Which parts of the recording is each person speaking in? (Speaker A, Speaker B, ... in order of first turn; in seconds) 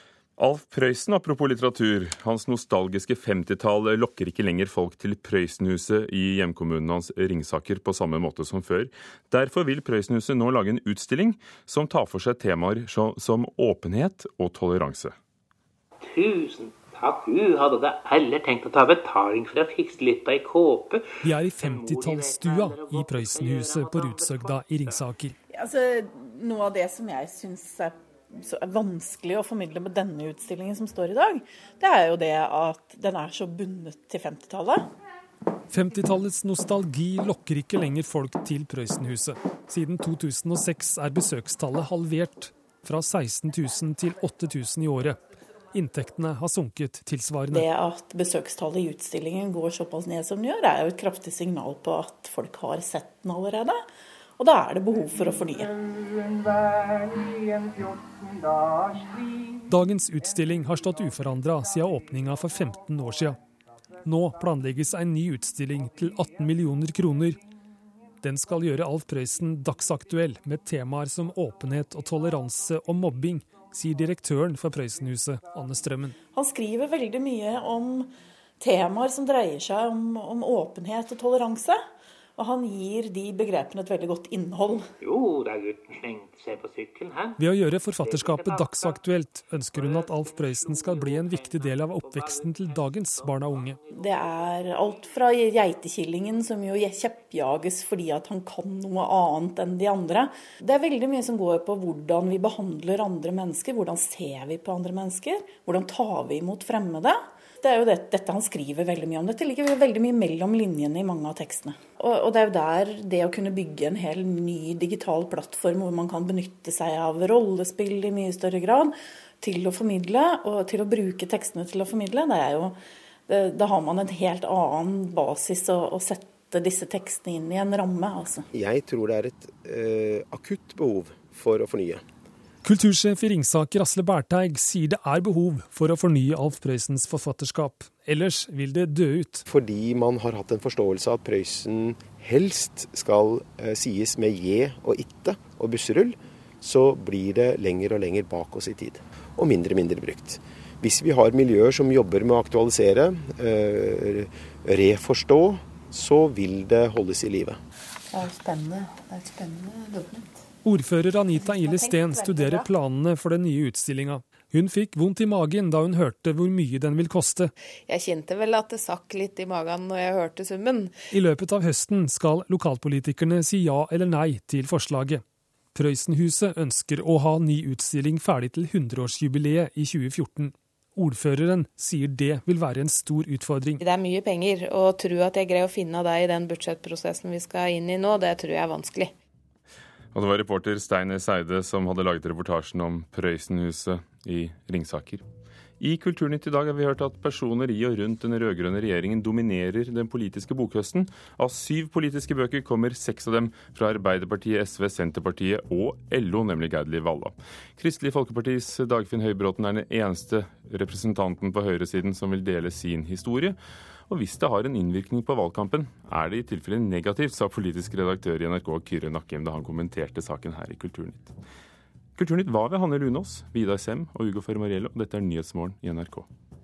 Speaker A: 0.4-15.1, 190.1-195.2, 195.8-213.6, 214.1-221.3, 222.2-226.3
Speaker B: 16.0-25.1, 85.0-87.4, 87.9-93.9
Speaker C: 21.2-25.4, 35.7-47.7, 59.7-63.4, 64.0-67.4, 68.2-76.2, 87.4-93.8, 132.6-139.5, 160.6-167.5, 171.1-183.8
Speaker D: 25.5-34.9, 47.5-53.9, 54.4-55.8, 76.3-81.8, 82.4-84.9, 93.9-128.5, 161.4-162.7
Speaker E: 128.5-132.0, 139.5-157.6
Speaker F: 158.1-160.3, 167.9-170.9, 183.8-189.1